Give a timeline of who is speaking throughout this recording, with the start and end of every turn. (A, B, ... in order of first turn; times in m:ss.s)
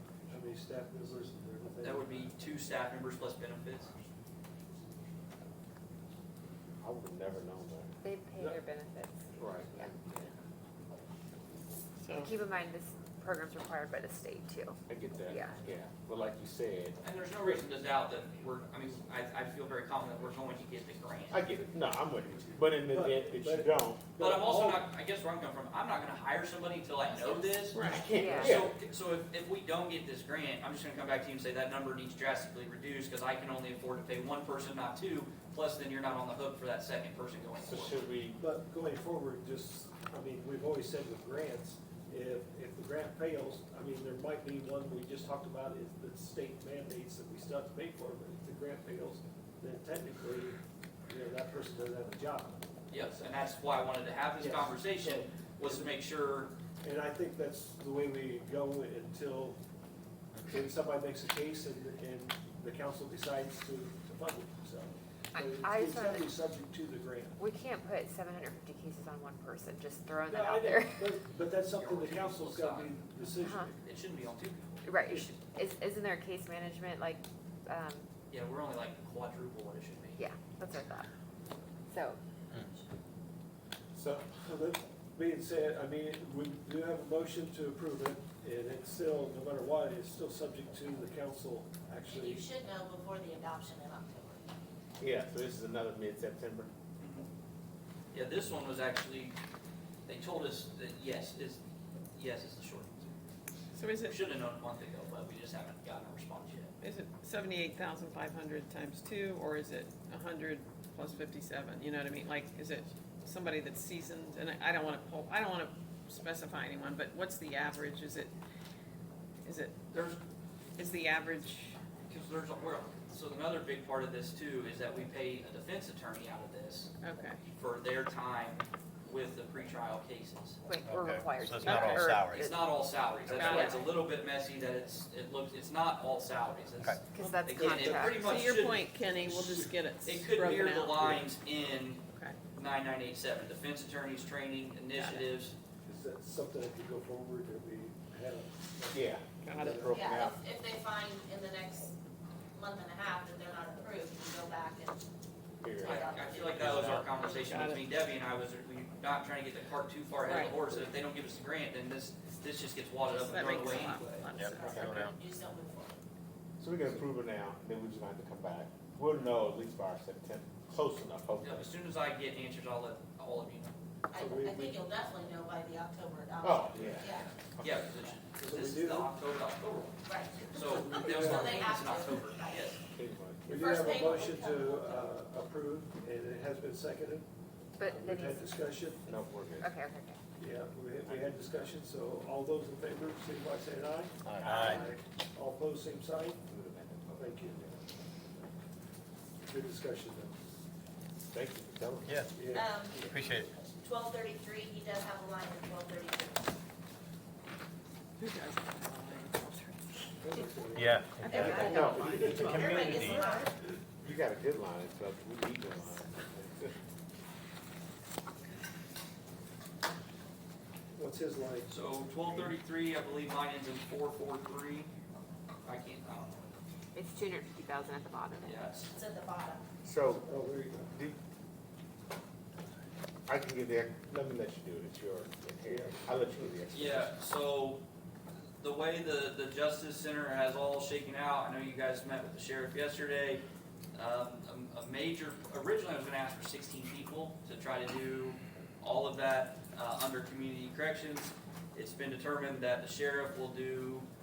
0:00.3-0:02.3 A
0:01.8-0:03.9 B
0:06.8-0:07.9 C
0:08.0-0:09.3 D
0:09.4-0:10.3 C
0:12.0-0:12.3 E
0:12.2-0:15.5 D
0:14.9-0:17.0 C
0:17.0-0:21.4 B
0:21.3-0:24.1 C
0:22.9-0:24.8 A
0:24.2-0:27.8 B
0:27.7-0:28.7 C
0:27.8-0:28.0 E
0:28.0-0:28.6 D
0:28.3-0:38.1 B
0:37.6-0:38.4 C
0:38.4-0:52.6 A
0:52.9-0:56.5 B
0:54.4-0:55.9 A
0:56.8-0:59.6 A
1:00.4-1:07.4 A
1:05.3-1:06.3 D
1:07.4-1:11.2 D
1:10.2-1:13.8 A
1:11.7-1:13.2 B
1:13.4-1:13.7 D
1:13.8-1:15.4 B
1:14.8-1:18.1 D
1:18.3-1:20.2 B
1:20.2-1:21.1 D
1:21.9-1:22.2 D
1:23.9-1:24.3 C
1:24.3-1:32.4 A
1:32.0-1:34.4 F
1:35.0-1:36.7 C
1:37.0-1:37.3 B
1:38.1-1:39.3 B
1:40.0-1:41.6 B
1:42.1-1:43.1 B
1:43.7-1:44.2 E
1:44.0-1:46.7 B
1:46.8-1:58.3 E
1:59.4-1:59.8 E
1:59.9-2:00.2 B
2:00.8-2:01.8 E
2:02.1-2:06.9 B
2:07.0-2:07.4 E
2:07.6-2:10.6 B
2:10.6-2:13.8 D
2:10.8-2:12.5 G
2:11.9-2:18.9 B
2:13.3-2:13.9 E
2:16.8-2:17.0 G
2:17.0-2:18.2 D
2:17.1-2:21.1 E
2:19.3-2:19.7 A
2:20.0-2:25.6 B
2:22.1-2:22.4 E
2:25.0-2:25.2 E
2:25.8-2:30.1 A
2:28.9-2:30.4 C
2:29.4-2:29.8 E
2:29.9-2:31.9 F
2:32.5-2:35.0 F
2:35.6-2:36.6 C
2:35.8-2:37.4 F
2:35.8-2:44.2 B
2:36.6-2:37.1 G
2:37.4-2:37.8 E
2:40.2-2:40.6 E
2:43.0-2:45.2 E
2:43.8-2:44.3 A
2:44.3-2:45.1 G
2:44.5-2:46.0 F
2:46.6-2:51.7 C
2:51.4-2:53.7 B
2:54.1-2:57.3 F
2:54.2-2:54.8 A
2:56.4-2:58.1 C
2:57.0-3:02.8 B
2:58.4-2:59.1 A
3:00.0-3:02.7 F
3:00.6-3:01.9 A
3:02.9-3:03.6 C
3:03.4-3:07.3 A
3:03.5-3:05.1 F
3:07.8-3:10.2 D
3:07.8-3:09.0 A
3:09.0-3:09.7 C
3:10.4-3:16.4 A
3:14.2-3:14.8 G
3:16.5-3:17.8 C
3:17.2-3:17.6 A
3:19.4-3:20.4 A
3:21.3-3:22.2 C
3:22.0-3:23.5 G
3:22.3-3:22.7 A
3:22.6-3:23.0 F
3:23.8-3:26.5 F
3:28.2-3:30.1 E
3:30.2-3:32.6 A
3:30.2-3:30.6 F
3:30.7-3:31.3 G
3:31.2-3:31.9 E
3:31.2-3:33.5 F
3:31.3-3:33.2 C
3:32.0-3:33.2 G
3:34.0-3:36.7 C
3:40.9-3:41.7 A
3:41.7-3:44.9 B
3:45.6-3:46.5 B
3:46.9-3:48.6 D
3:48.4-3:48.9 B
3:48.9-3:49.6 F
3:49.8-3:50.3 C
3:50.2-3:51.0 A
3:53.3-3:57.1 C
3:55.6-3:56.5 A
3:56.7-3:57.8 B
3:58.6-4:03.4 B
4:03.9-4:14.1 B